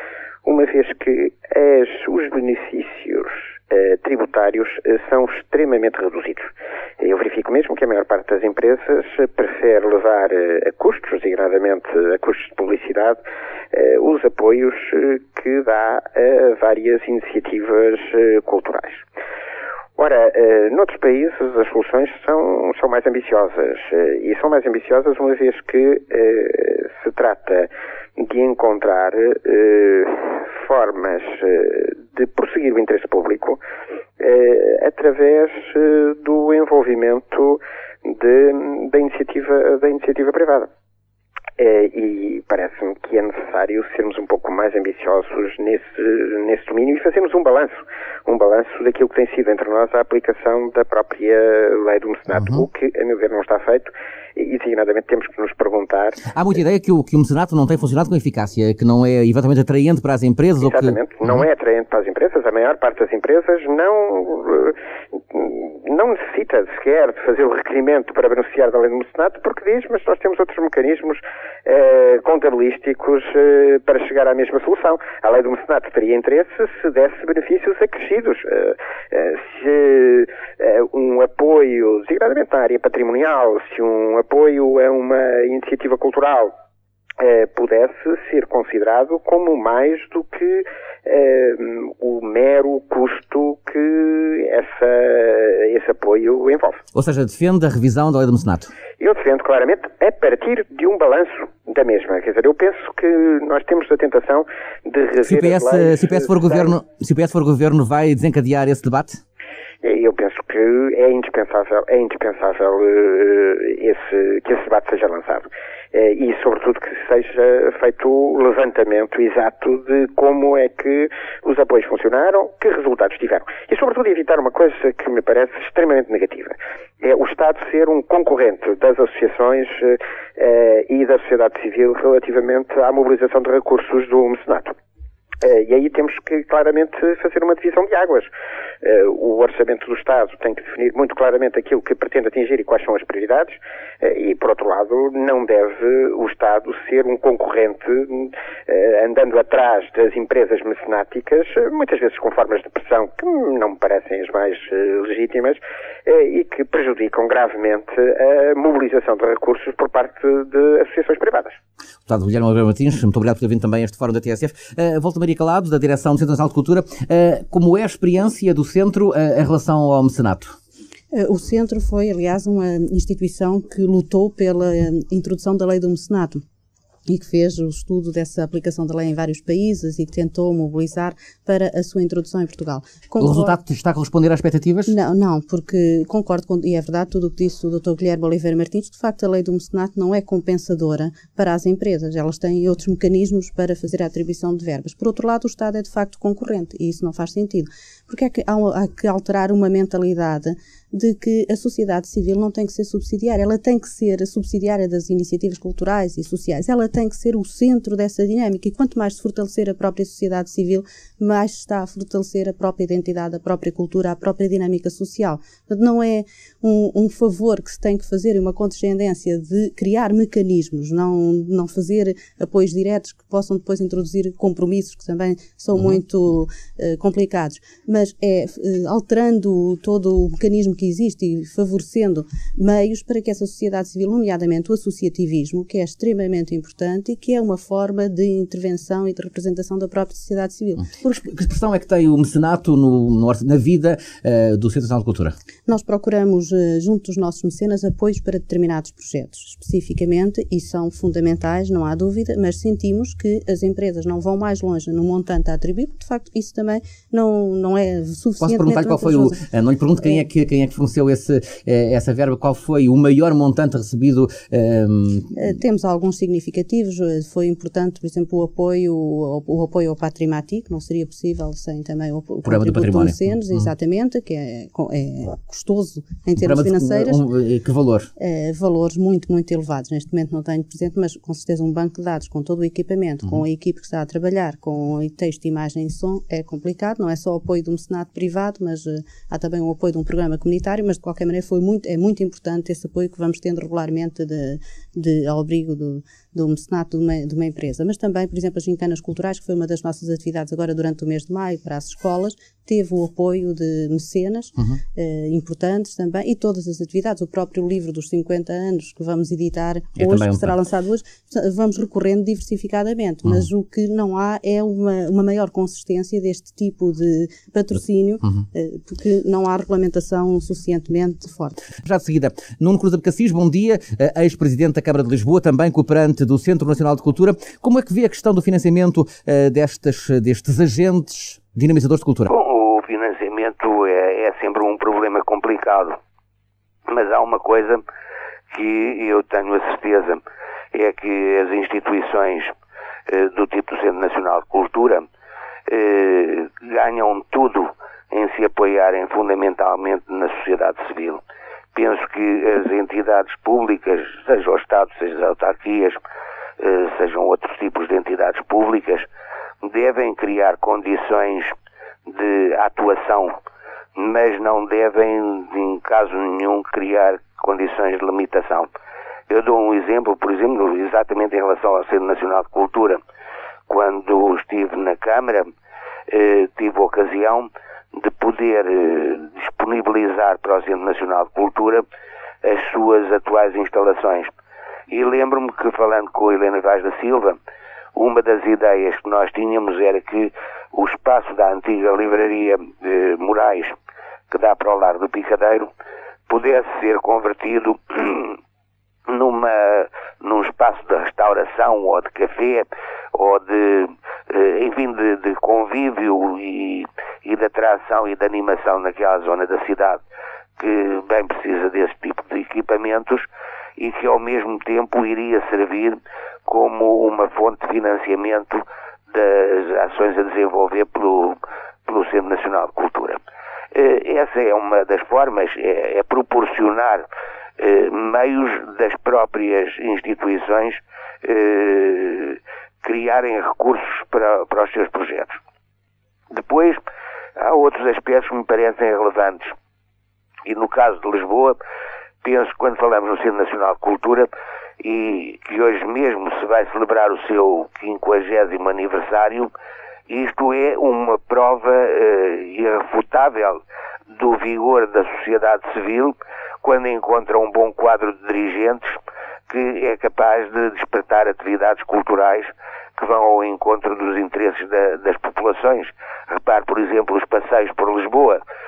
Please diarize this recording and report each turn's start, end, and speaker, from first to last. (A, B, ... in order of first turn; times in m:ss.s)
0:00.4-0:13.2 A
0:13.7-0:19.0 A
0:20.0-0:33.6 A
0:34.2-0:40.7 A
0:41.6-0:56.2 A
0:52.3-0:52.7 B
0:56.3-1:01.5 B
1:00.6-1:26.5 A
1:27.2-1:36.8 A
1:37.0-1:38.7 B
1:39.0-1:46.8 A
1:45.2-1:49.2 B
1:49.8-2:14.7 A
2:15.4-2:41.6 A
2:42.1-2:50.6 B
2:51.1-2:56.4 C
2:57.1-3:03.6 C
3:03.2-3:05.0 B
3:04.9-4:01.2 C
4:01.1-4:05.4 B
4:05.7-4:19.4 C
4:18.4-4:25.4 B
4:25.4-4:37.2 C
4:32.4-4:33.6 B
4:36.4-4:38.1 B
4:38.2-5:21.6 C
5:10.0-5:10.5 B
5:21.8-5:32.3 B
5:32.3-5:36.0 D
5:36.9-5:37.8 D
5:38.5-5:40.2 D
5:40.7-5:42.5 D
5:43.1-5:45.1 D
5:45.7-5:51.2 D
5:51.7-5:56.0 D
5:56.6-5:59.1 D
5:59.6-6:01.5 D
6:02.1-6:03.4 D
6:04.0-6:08.7 D
6:09.3-6:13.0 D
6:13.7-6:15.5 D
6:16.1-6:21.8 D
6:22.4-6:24.3 D
6:24.9-6:27.4 D
6:28.0-6:33.8 D
6:34.3-6:35.7 D
6:36.3-6:38.4 D
6:39.1-6:50.0 D
6:50.6-7:03.2 D
7:03.7-7:07.1 D
7:07.6-7:15.4 D
7:16.3-7:16.8 D
7:17.4-7:19.6 D
7:20.5-7:21.6 D
7:22.2-7:24.3 D
7:24.8-7:29.5 D
7:30.1-7:33.6 D
7:34.1-7:48.4 D